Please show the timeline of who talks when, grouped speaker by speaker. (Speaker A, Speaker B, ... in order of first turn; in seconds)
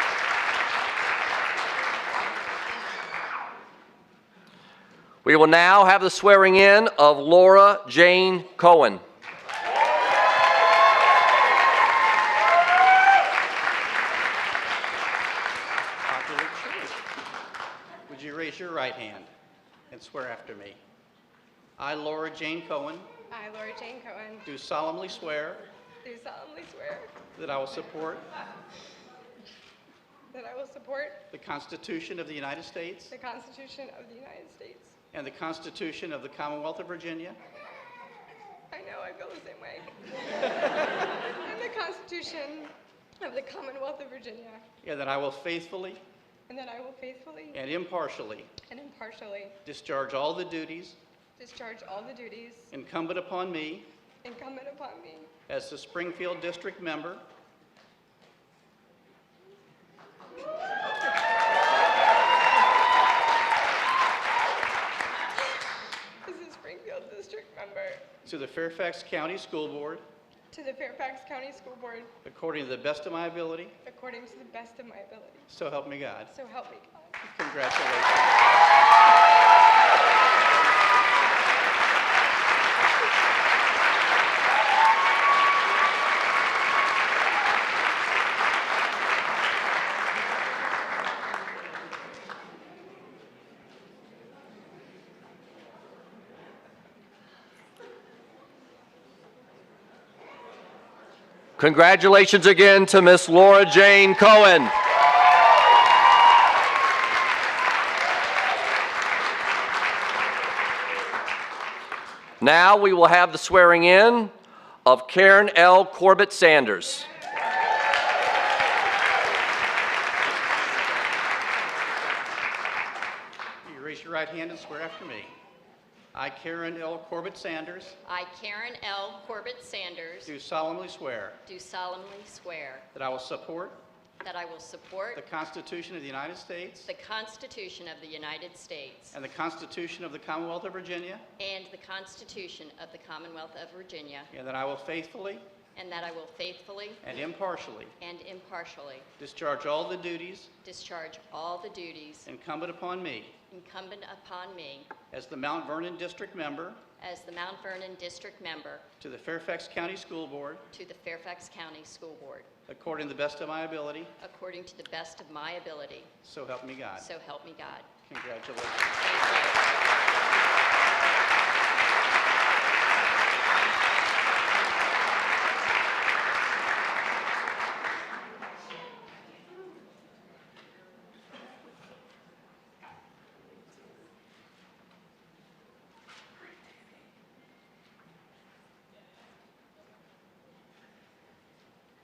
Speaker A: 5.2-9.0, 101.6-104.7, 112.4-114.3, 114.8-117.1
Speaker B: 16.0-17.0, 18.1-19.3, 19.9-20.8, 21.8-23.1, 24.5-25.6, 27.4-28.2, 31.3-33.1, 35.1-37.4, 44.8-46.0, 47.5-48.5, 49.6-51.0, 52.7-53.9, 55.5-57.2, 68.2-70.0, 72.2-73.7, 75.5-76.3, 77.2-78.4, 123.6-125.3, 126.1-128.0, 130.2-131.4, 132.9-133.8, 135.1-136.9, 139.1-141.2, 144.3-145.4, 147.0-147.9, 149.2-150.5, 152.2-153.3, 155.1-156.8, 159.0-160.6, 162.7-164.1, 166.2-167.1, 168.0-168.9
Speaker C: 23.3-24.5, 26.0-27.1, 30.3-31.3, 33.1-34.9, 38.7-40.0, 40.5-44.6, 46.5-47.6, 48.6-49.6, 51.4-52.7, 54.2-55.3, 66.2-68.1, 70.5-72.1, 73.8-75.5, 76.3-77.2
Speaker D: 120.6-122.1, 128.0-130.3, 131.4-132.9, 134.2-135.2, 136.8-139.2, 141.4-144.3, 145.8-147.0, 148.0-149.1, 150.6-152.3, 153.5-154.9, 157.0-158.8, 160.7-162.5, 164.2-166.1, 166.9-167.9, 169.0-169.6